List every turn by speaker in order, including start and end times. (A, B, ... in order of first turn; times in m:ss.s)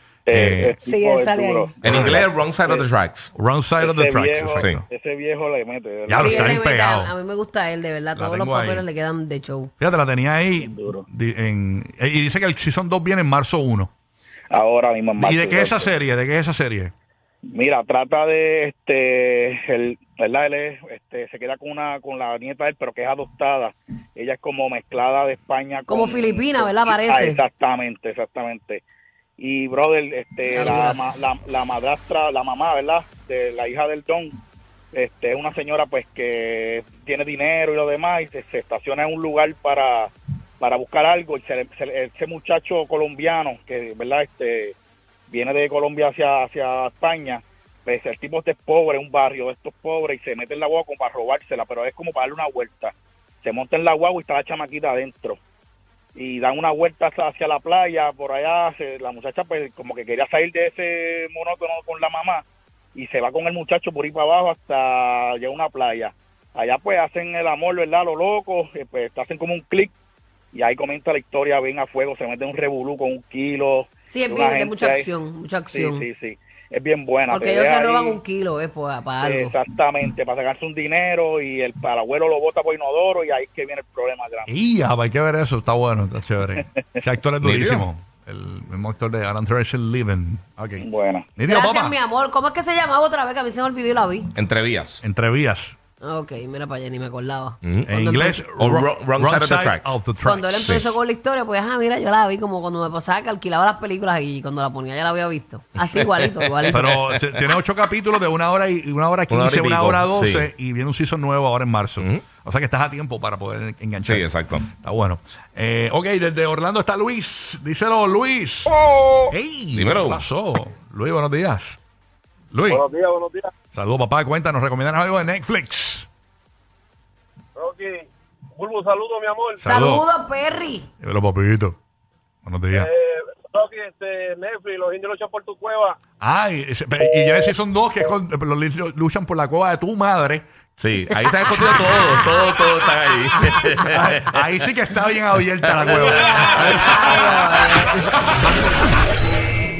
0:00.3-0:02.8 A
0:00.3-0:00.7 B
0:00.8-0:01.7 C
0:01.8-0:03.3 D
0:03.3-0:04.8 B
0:03.8-0:06.6 A
0:06.1-0:07.1 B
0:06.1-0:09.7 C
0:08.2-0:08.8 B
0:09.8-0:13.9 B
0:10.6-0:11.0 A
0:14.5-0:15.9 A
0:15.2-0:16.9 B
0:17.5-0:28.8 A
0:25.9-0:27.4 C
0:29.4-0:34.4 A
0:30.5-0:31.0 C
0:34.9-0:44.7 A
0:45.3-0:55.4 A
0:56.1-1:02.4 A
1:02.9-1:09.9 A
1:10.5-1:15.1 A
1:14.1-1:16.0 C
1:15.7-1:18.2 A
1:17.3-1:19.5 C
1:19.2-1:24.5 A
1:24.5-1:30.8 B
1:27.4-1:27.9 D
1:30.8-1:31.3 A
1:31.4-1:32.0 B
1:31.4-1:34.3 C
1:34.3-1:35.0 D
1:35.0-1:35.8 B
1:36.0-1:38.5 C
1:37.6-1:37.9 D
1:37.9-1:40.6 B
1:38.6-1:40.0 D
1:40.2-1:46.9 C
1:40.6-1:40.9 D
1:45.8-1:47.2 D
1:46.7-1:58.7 B
1:49.3-1:50.5 D
1:52.0-1:52.2 D
1:54.0-1:54.7 D
1:58.8-1:59.2 E
1:59.3-2:01.8 B
1:59.7-2:00.2 D
2:02.5-2:02.8 B
2:02.7-2:03.5 E
2:03.7-2:06.1 B
2:07.5-2:09.6 E
2:09.6-2:10.9 C
2:09.6-2:10.0 B
2:11.0-2:11.8 B
2:12.4-2:12.9 B
2:12.7-2:16.0 E
2:16.2-2:20.4 B
2:20.8-2:24.4 D
2:23.8-2:27.4 B
2:25.8-2:28.0 C
2:26.6-2:27.4 D